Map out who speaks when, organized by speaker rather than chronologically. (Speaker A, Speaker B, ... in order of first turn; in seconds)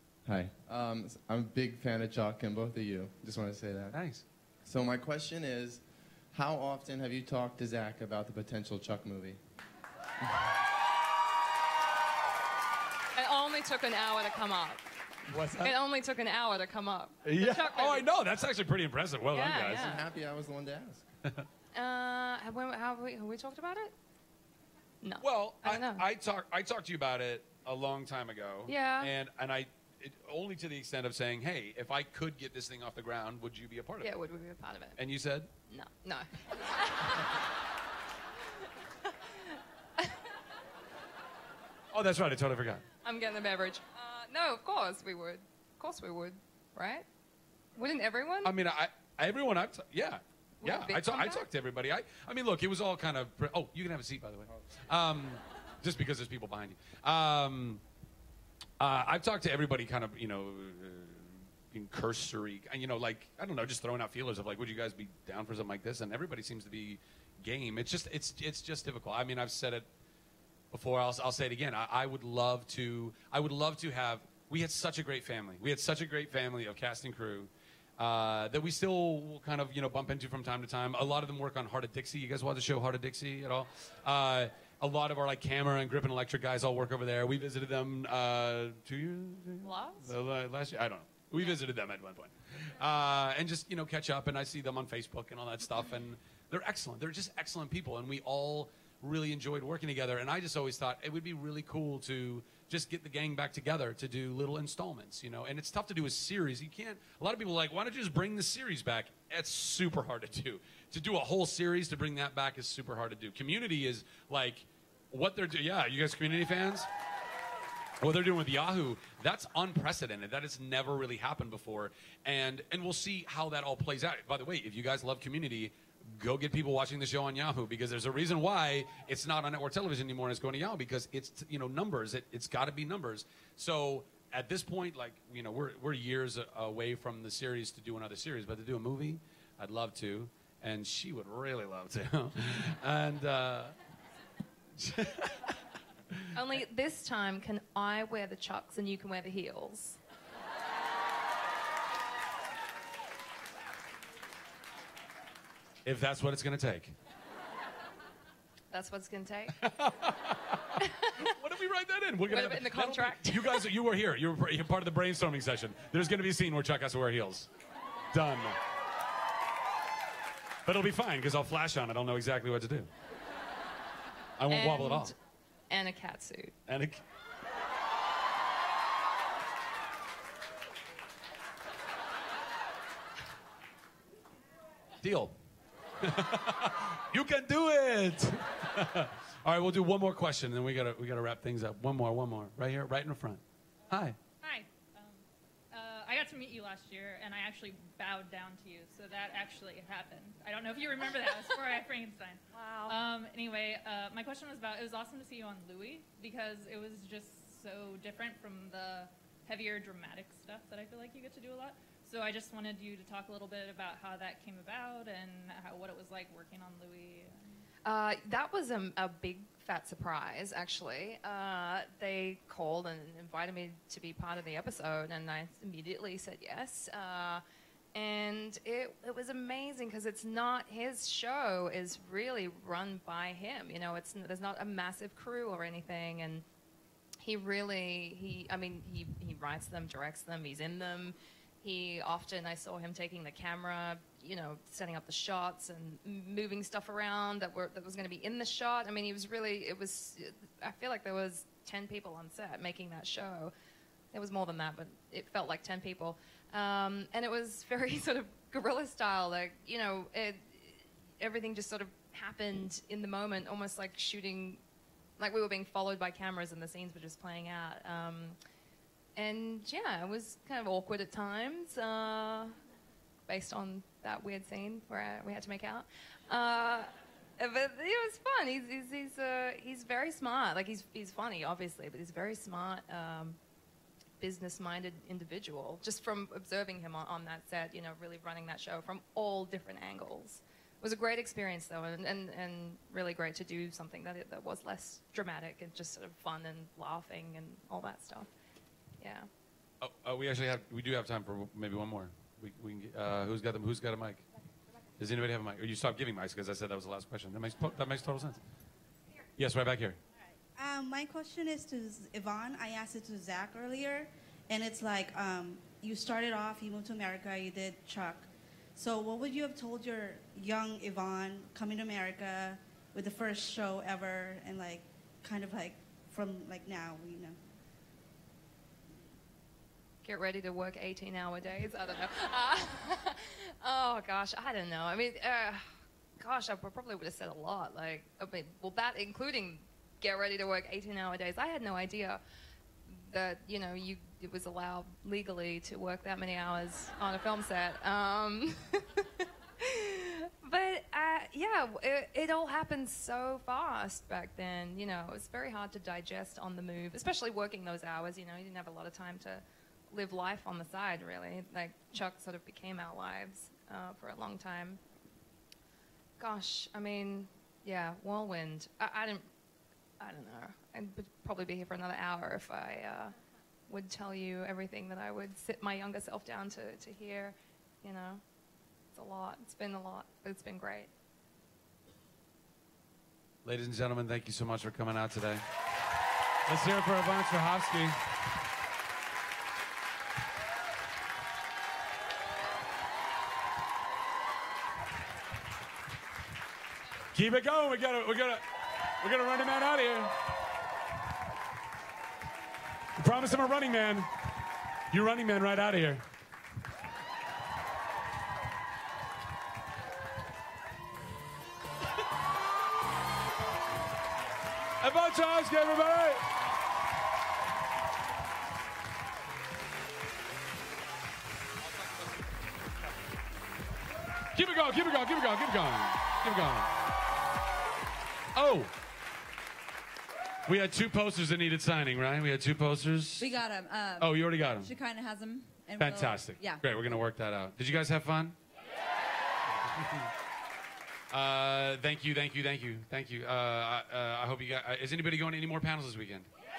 Speaker A: 0.2-4.0, 4.6-9.4, 19.6-21.1
Speaker B: 3.9-4.2, 15.3-15.7, 17.2-20.0, 25.2-34.1, 35.0-35.5, 41.9-42.8, 48.4-57.8, 58.8-69.9, 70.7-116.9, 118.0-143.8, 144.8-145.6, 155.8-156.9, 159.6-160.6, 161.2-167.5, 168.1-168.6, 170.6-172.9, 174.4-175.1, 176.7-177.0, 185.0-185.3, 186.0-194.2, 299.8-304.2, 305.0-308.4, 309.4-310.0, 383.4-385.4, 386.4-388.0, 397.1-400.2, 402.9-404.1, 404.9-406.0, 414.8-416.3, 424.3-426.7, 428.3-428.7, 430.4-433.4, 434.0-434.7, 435.8-438.4, 439.5-440.1, 441.1-446.3
Speaker C: 13.2-14.8, 15.6-18.1, 19.3-20.0, 21.7-23.9, 25.0-26.0, 28.7-29.1, 34.0-35.0, 35.7-37.3, 39.3-40.2, 43.0-47.0, 47.8-48.5, 50.6-51.4, 89.6-90.1, 146.3-150.0, 158.7-159.6, 160.8-161.3, 162.3-163.6, 174.5-175.2, 175.7-176.5, 202.6-202.9, 217.8-227.4, 227.9-236.4, 237.2-253.5, 254.1-264.6, 265.2-268.4, 269.1-272.6, 273.3-283.4, 284.2-298.3, 299.0-299.3, 330.0-335.6, 336.2-342.2, 342.9-364.8, 366.2-369.3, 370.0-373.1, 373.7-378.2, 378.9-380.9
Speaker D: 194.4-217.4
Speaker E: 310.6-327.4
Speaker F: 433.2-436.6